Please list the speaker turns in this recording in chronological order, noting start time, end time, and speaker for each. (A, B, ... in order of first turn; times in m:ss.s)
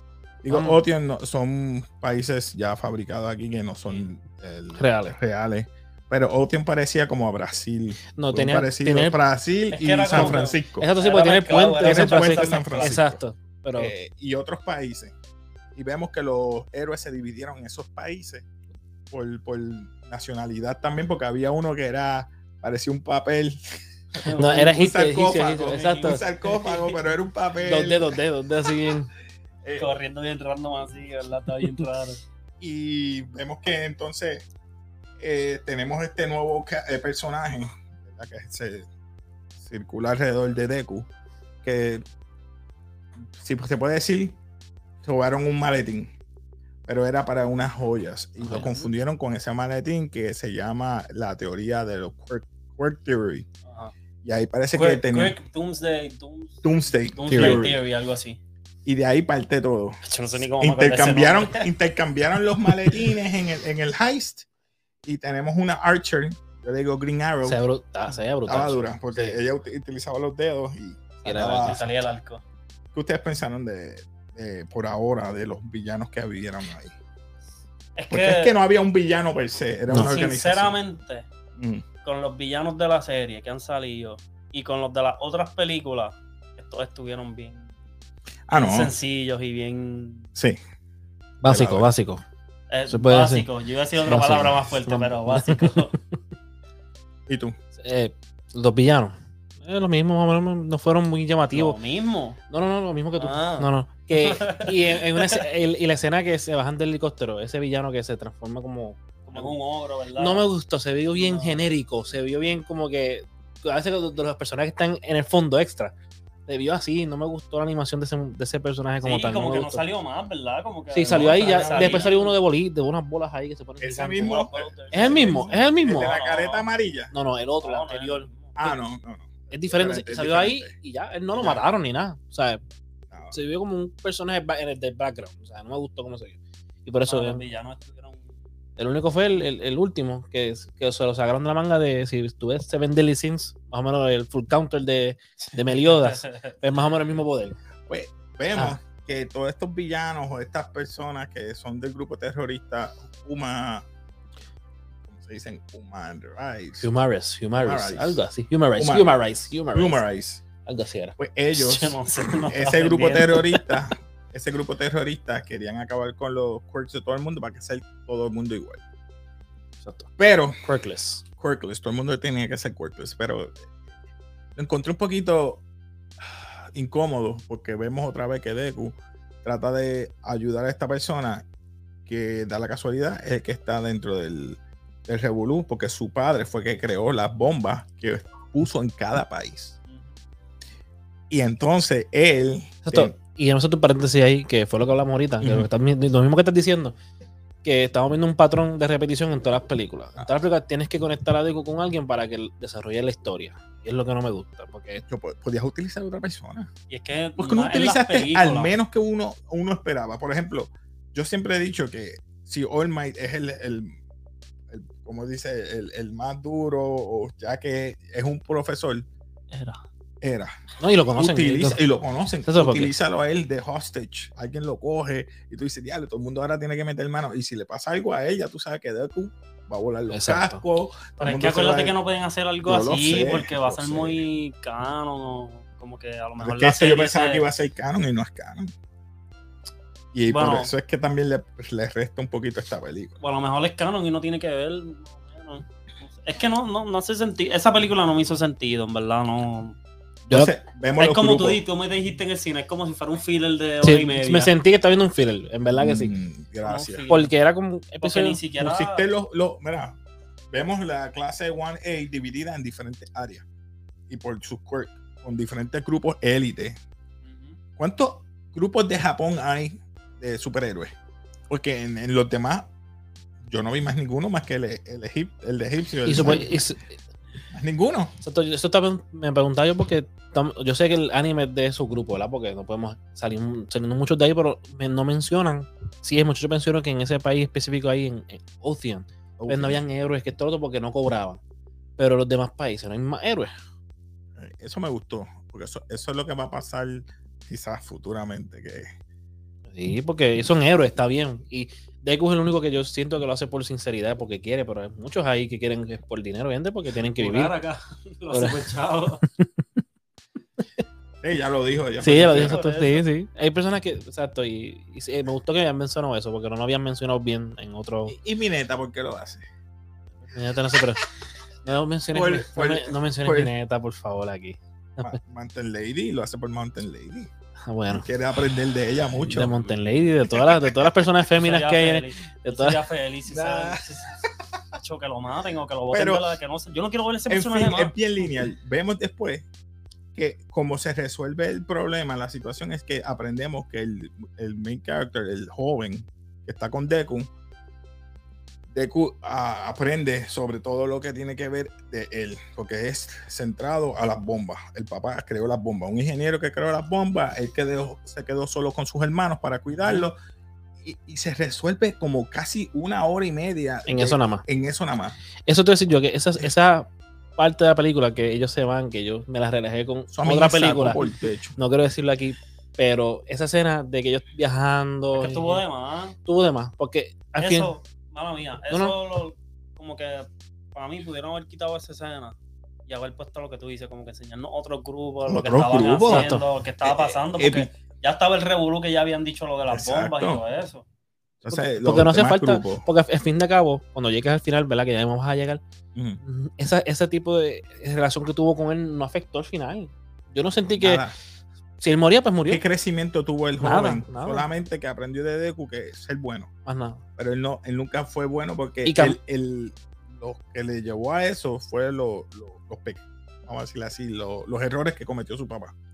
0:00.4-0:10.9 A
0:00.5-0:00.8 B
0:04.8-0:05.2 B
0:08.2-0:09.2 B
0:09.7-0:13.0 C
0:10.1-0:13.9 B
0:11.8-0:13.2 A
0:13.8-0:15.2 A
0:15.8-0:18.5 A
0:19.1-0:28.2 A
0:24.2-0:24.7 C
0:24.3-0:26.2 B
0:25.7-0:27.1 C
0:27.6-0:29.1 B
0:29.6-0:29.9 A
0:29.7-0:32.2 C
0:32.6-0:34.4 A
0:35.2-0:38.9 A
0:39.6-0:41.1 A
0:41.6-0:42.0 A
0:43.3-0:44.4 A
0:45.0-0:46.1 A
0:46.9-0:53.5 A
0:48.6-0:48.9 C
0:53.7-0:53.9 C
0:54.2-0:55.4 A
0:54.7-0:58.4 C
0:56.6-0:57.8 A
0:57.3-0:57.7 B
0:58.8-1:00.0 A
1:00.0-1:01.7 C
1:00.6-1:04.5 A
1:05.0-1:07.6 A
1:07.4-1:09.4 B
1:08.5-1:11.8 A
1:11.2-1:11.9 B
1:11.5-1:12.4 C
1:12.9-1:17.0 A
1:18.0-1:18.5 C
1:18.1-1:20.8 A
1:20.0-1:21.3 C
1:21.6-1:21.8 A
1:22.0-1:27.7 C
1:28.5-1:28.9 A
1:28.5-1:30.3 C
1:31.4-1:32.2 B
1:31.5-1:31.9 A
1:32.7-1:35.9 C
1:32.9-1:33.5 B
1:34.0-1:36.0 B
1:37.3-1:37.6 A
1:37.8-1:41.8 B
1:41.5-1:42.4 C
1:42.5-1:49.5 B
1:43.2-1:45.4 C
1:49.3-1:50.5 C
1:50.2-1:55.9 B
1:51.2-1:51.7 C
1:56.5-1:59.8 B
1:59.0-2:02.3 C
2:00.9-2:04.4 B
2:01.1-2:02.1 A
2:03.8-2:07.1 A
2:04.2-2:06.7 C
2:04.9-2:06.1 B
2:07.1-2:08.3 B
2:07.6-2:08.7 C
2:08.6-2:10.8 A
2:09.5-2:12.6 B
2:11.3-2:11.6 A
2:13.1-2:13.4 A
2:13.3-2:17.4 B
2:17.1-2:18.2 C
2:18.8-2:27.6 B
2:25.7-2:26.6 C
2:27.9-2:33.9 A
2:35.1-2:36.9 A
2:36.8-2:40.0 B
2:37.6-2:38.2 A
2:38.8-2:39.1 A
2:39.7-2:40.4 A
2:40.6-2:41.2 B
2:41.2-2:48.8 A
2:41.5-2:43.5 C
2:49.8-2:50.1 B
2:50.2-2:50.6 A
2:50.6-2:51.2 B
2:51.4-2:53.6 A
2:54.6-2:55.6 A
2:56.2-3:01.5 A
3:02.1-3:09.8 A
3:09.9-3:10.1 C
3:11.3-3:13.2 A
3:12.8-3:17.0 B
3:15.4-3:15.7 A
3:17.6-3:25.0 B
3:25.1-3:26.7 A
3:26.9-3:28.7 C
3:27.4-3:34.0 A
3:34.7-3:39.1 A
3:39.5-3:39.8 C
3:40.2-3:40.5 A
3:40.8-3:41.8 B
3:41.2-3:52.0 A
3:42.4-3:42.9 B
3:50.1-3:50.6 B
3:51.2-3:57.5 C
3:52.6-3:54.3 A
3:56.4-3:58.7 A
4:00.1-4:03.2 A
4:00.3-4:00.7 C
4:03.2-4:09.8 C
4:10.3-4:11.6 A
4:11.0-4:14.5 C
4:13.8-4:16.1 B
4:15.8-4:17.1 A
4:16.6-4:17.3 C
4:17.1-4:18.4 B
4:18.0-4:19.1 C
4:18.6-4:20.0 A
4:20.5-4:23.4 A
4:24.1-4:26.8 A
4:27.2-4:27.6 C
4:27.8-4:30.9 A
4:31.5-4:32.7 A
4:33.4-4:36.6 A
4:36.0-4:36.9 B
4:37.5-4:38.2 A
4:38.2-4:51.4 B
4:49.4-4:49.8 A
4:52.0-4:53.5 B
4:54.4-4:58.9 A
4:59.7-5:07.5 B
5:07.0-5:09.2 C
5:08.3-5:08.7 B
5:11.2-5:12.6 A
5:12.0-5:18.2 B
5:12.1-5:13.1 C
5:18.1-5:19.4 A
5:20.3-5:21.1 B
5:21.6-5:25.2 B
5:22.1-5:23.5 A
5:25.0-5:27.3 A
5:27.7-5:28.1 B
5:27.9-5:29.6 A
5:29.3-5:32.8 B
5:30.3-5:30.9 A
5:31.4-5:34.2 C
5:33.3-5:33.9 A
5:34.8-5:37.9 C
5:35.9-5:36.4 A
5:37.3-5:39.5 A
5:40.2-5:47.3 A
5:48.7-6:00.2 A
6:00.8-6:05.2 A
6:03.9-6:04.4 B
6:05.5-6:11.0 B
6:10.1-6:11.6 A
6:11.6-6:15.6 B
6:15.1-6:16.2 C
6:16.2-6:17.7 B
6:17.4-6:22.4 C
6:18.7-6:19.0 B
6:22.9-6:30.8 C
6:25.3-6:27.7 A
6:26.1-6:26.4 B
6:29.7-6:30.4 A
6:31.4-6:32.8 A
6:31.5-6:35.6 B
6:36.0-6:36.2 A
6:36.2-6:41.0 B
6:40.8-6:41.1 A
6:41.8-6:42.6 B
6:42.5-6:46.5 A
6:43.6-6:44.5 B
6:46.7-6:47.0 B
6:47.2-6:55.7 A
6:48.8-6:49.2 B